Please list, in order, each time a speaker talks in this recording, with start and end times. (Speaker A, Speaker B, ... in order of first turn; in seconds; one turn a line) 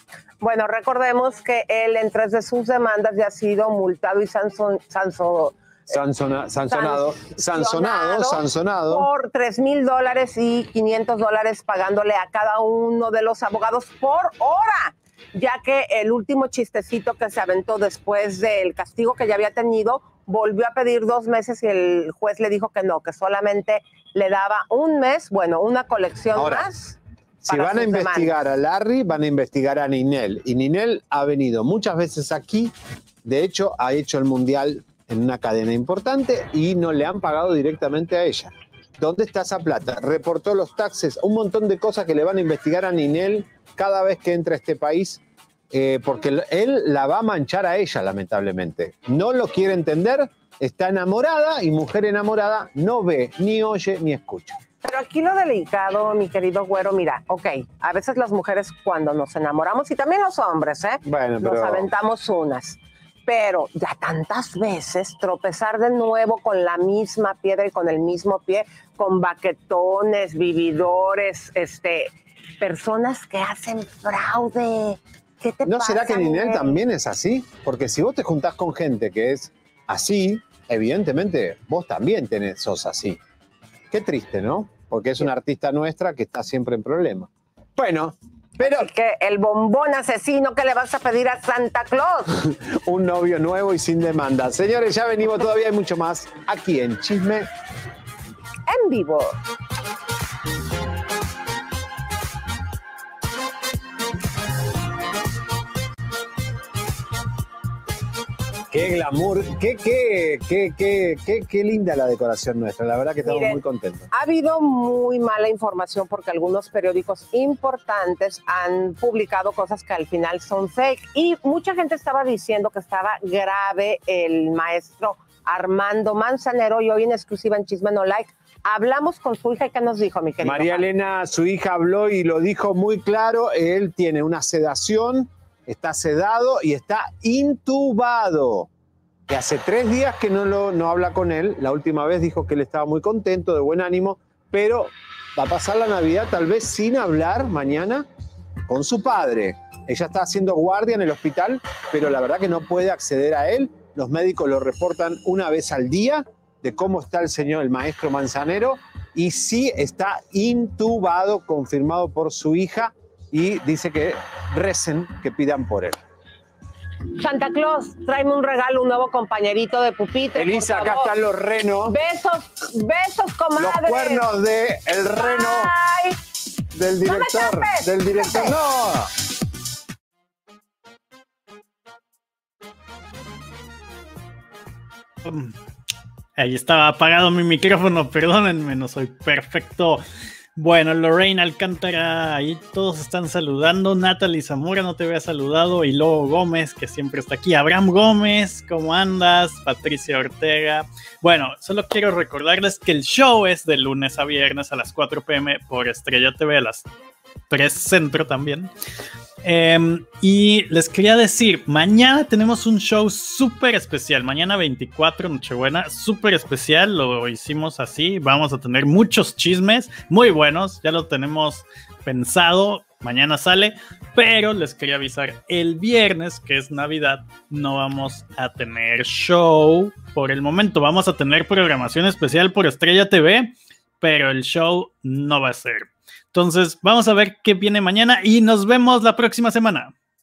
Speaker A: 0.4-5.6
Speaker B: 5.9-9.1
Speaker A: 6.7-26.9
Speaker B: 26.3-26.7
Speaker B: 27.4-54.6
Speaker A: 27.5-28.4
Speaker A: 54.8-76.8
Speaker B: 61.0-61.9
Speaker B: 75.6-83.2
Speaker B: 83.9-88.9
Speaker A: 88.6-92.3
Speaker B: 92.3-97.5
Speaker A: 98.7-99.4
Speaker B: 108.7-114.1
Speaker A: 113.2-130.8
Speaker B: 130.4-138.7
Speaker B: 139.3-148.1
Speaker B: 148.7-166.0
Speaker A: 167.2-171.1
Speaker B: 170.3-171.9
Speaker A: 171.9-174.3
Speaker B: 173.6-175.7
Speaker A: 175.2-176.2
Speaker B: 176.7-179.1
Speaker A: 177.0-178.6
Speaker C: 185.2-185.5
Speaker C: 186.4-190.0
Speaker C: 190.6-206.8
Speaker C: 207.5-208.7
Speaker C: 209.4-239.9